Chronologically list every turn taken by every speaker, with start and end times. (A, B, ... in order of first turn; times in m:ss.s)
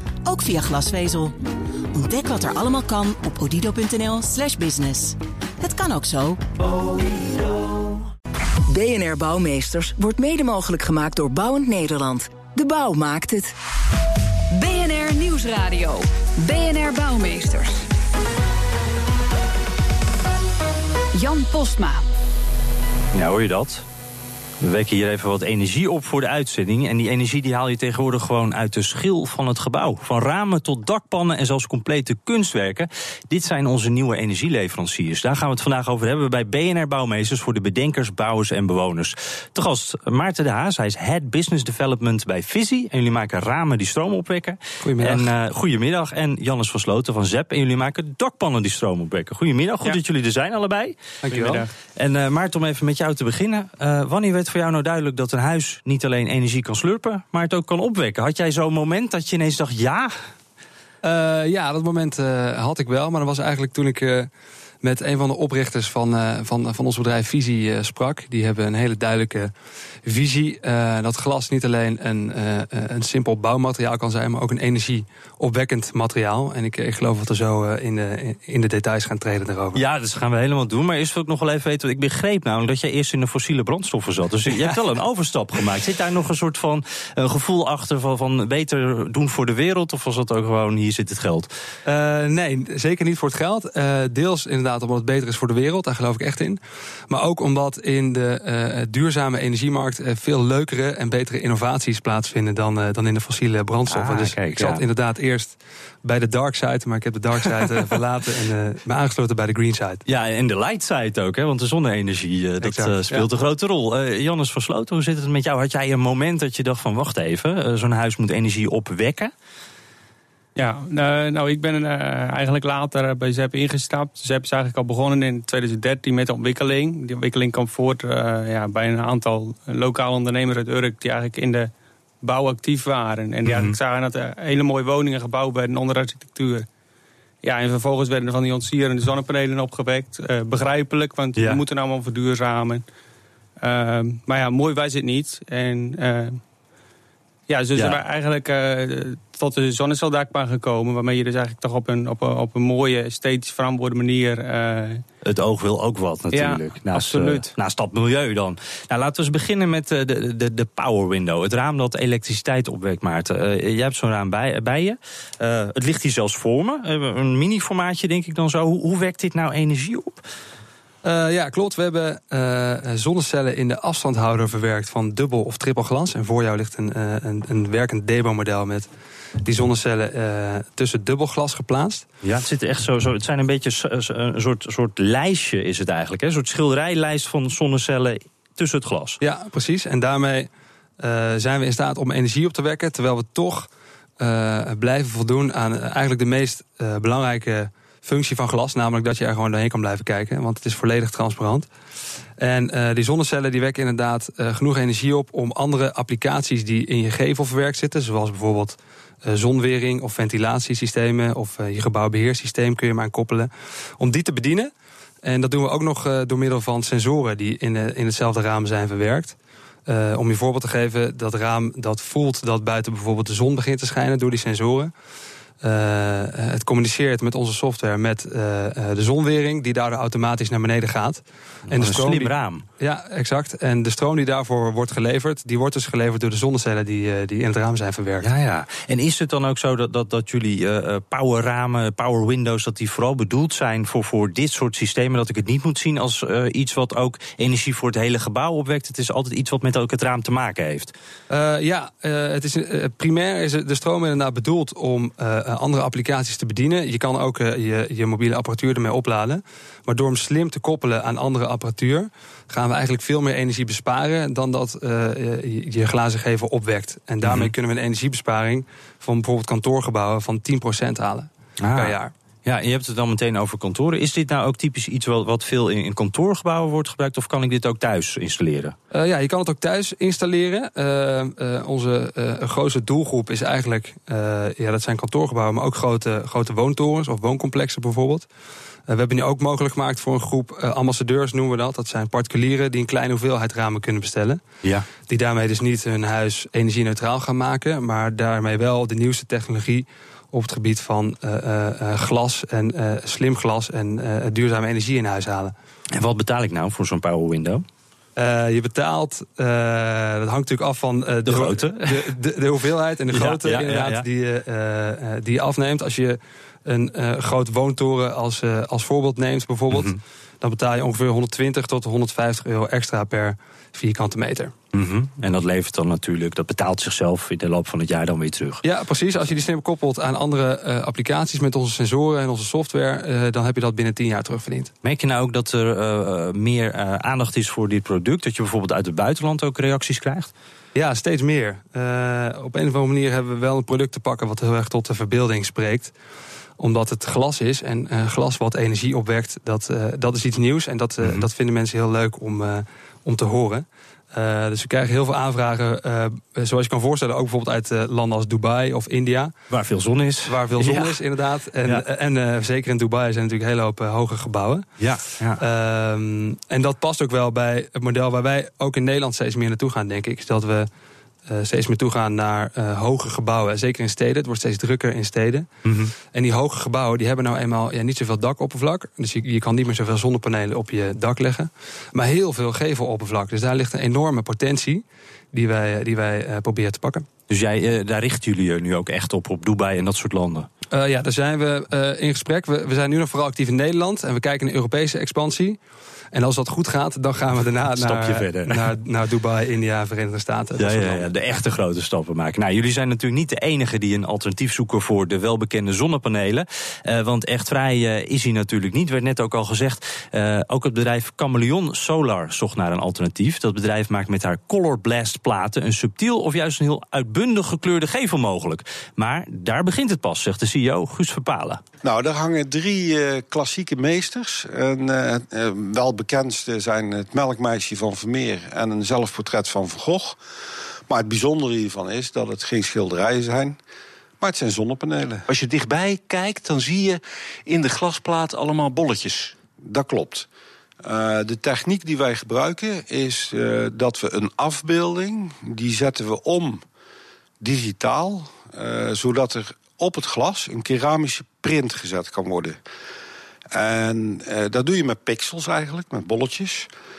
0:00.2-0:01.3 A
0:01.9-0:06.4 A
0:08.7-0:13.5 B
0:14.5-0:17.9 C
0:21.1-0:22.0 C
0:23.1-0:23.8 D
0:24.6-0:51.1 D
0:44.8-0:45.3 E
0:51.2-0:51.6 E
0:51.3-0:51.7 F
0:51.9-1:00.1 D
1:01.0-1:04.3 E
1:04.8-1:09.5 E
1:10.0-1:19.8 E
1:19.7-1:31.5 D
1:31.8-1:36.6 E
1:37.1-1:50.0 E
1:43.9-1:44.8 D
1:50.0-1:59.3 D
1:52.6-1:53.3 E
2:00.6-2:11.7 F
2:12.2-2:16.7 F
2:13.4-2:13.8 D
2:17.4-2:22.8 F
2:23.6-2:26.4 F
2:27.5-2:35.0 F
2:27.8-2:28.0 D
2:35.2-2:50.2 D
2:36.3-2:37.5 F
2:51.0-2:58.9 E
2:59.4-3:02.0 E
3:02.2-3:09.2 D
3:09.2-3:10.5 E
3:11.0-3:21.7 E
3:22.4-3:34.7 E
3:35.2-3:44.9 E
3:45.6-3:58.3 E
3:51.7-3:52.6 D
3:58.2-4:10.9 D
4:11.3-4:32.1 E
4:27.2-4:27.5 D
4:31.6-4:38.8 D
4:38.9-4:48.3 E
4:48.9-4:54.4 E
4:55.1-5:05.5 E
5:05.9-5:07.6 D
5:08.2-5:24.5 E
5:11.2-5:12.1 D
5:13.1-5:14.0 D
5:24.7-5:28.6 D
5:28.6-5:34.7 E
5:34.8-5:40.3 D
5:40.7-5:45.9 E
5:46.6-5:59.3 E
5:51.0-5:51.3 D
5:59.5-6:01.0 D
6:00.3-6:04.7 E
6:04.8-6:05.4 D
6:05.4-6:10.7 E
6:11.3-6:15.5 E
6:15.6-6:15.9 D
6:16.0-6:27.0 E
6:27.3-6:30.5 D
6:30.7-6:35.6 E
6:36.1-6:41.1 E
6:37.7-6:38.7 D
6:40.6-7:01.6 D
7:01.8-7:10.2 G
7:10.9-7:13.6 G
7:14.2-7:15.2 G
7:15.3-7:19.4 H
7:19.6-7:20.3 G
7:20.8-7:26.6 G
7:27.4-7:32.6 G
7:33.5-7:36.7 G